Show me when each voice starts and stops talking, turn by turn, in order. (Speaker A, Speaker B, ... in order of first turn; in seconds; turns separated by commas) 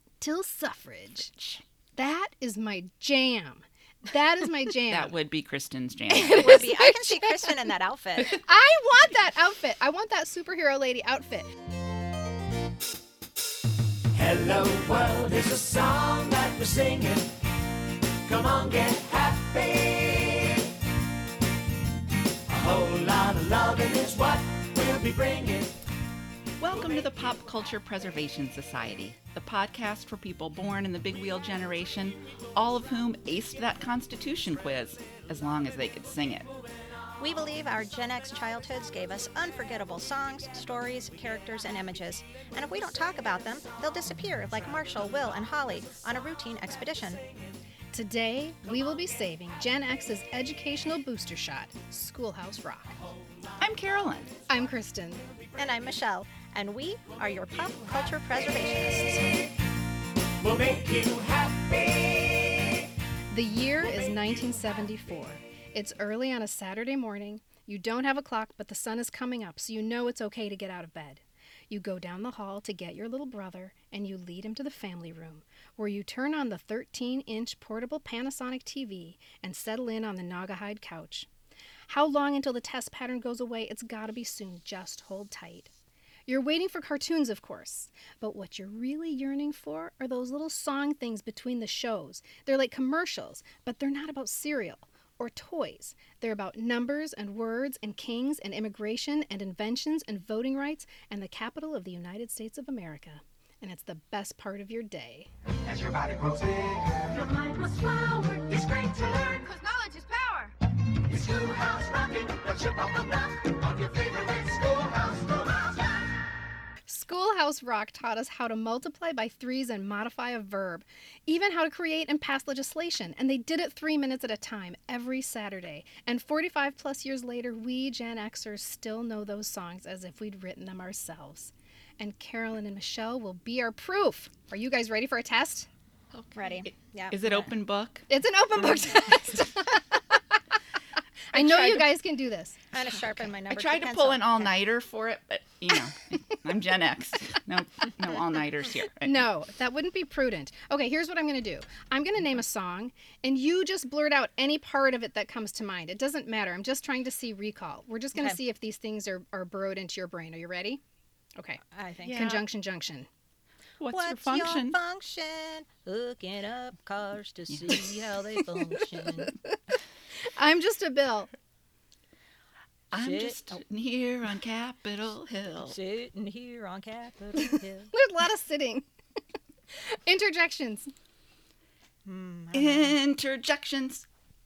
Speaker A: 0.2-1.3, Speaker B: 1.3-1.6, Speaker A: 2.0-5.1, Speaker B: 4.9-6.7, Speaker A: 6.1-7.7, Speaker C: 6.3-8.4, Speaker A: 8.2-11.5, Speaker D: 14.1-17.4, Speaker D: 18.3-20.7, Speaker D: 22.5-25.9, Speaker B: 26.6-36.5, Speaker C: 37.2-47.2, Speaker A: 47.9-52.9, Speaker B: 53.6-54.3, Speaker A: 54.5-55.3, Speaker C: 55.6-59.4, Speaker D: 60.4-62.9, Speaker A: 63.3-81.3, Speaker A: 81.9-85.7, Speaker A: 86.3-105.3, Speaker D: 105.6-116.2, Speaker A: 116.9-135.7, Speaker B: 136.1-138.9, Speaker C: 136.4-137.5, Speaker A: 138.1-140.4, Speaker A: 141.3-142.6, Speaker B: 141.3-141.8, Speaker C: 142.7-144.6, Speaker B: 143.5-149.3, Speaker A: 149.0-160.8, Speaker A: 161.4-163.1, Speaker C: 161.7-162.2, Speaker B: 162.0-162.4, Speaker B: 163.8-164.8, Speaker C: 163.9-169.3, Speaker B: 167.5-167.8, Speaker A: 168.6-169.6, Speaker A: 170.2-171.3, Speaker B: 172.9-175.8, Speaker C: 173.0-173.6, Speaker C: 175.7-177.9, Speaker A: 177.4-178.9, Speaker A: 179.7-180.9, Speaker C: 182.1-183.0, Speaker B: 182.5-184.1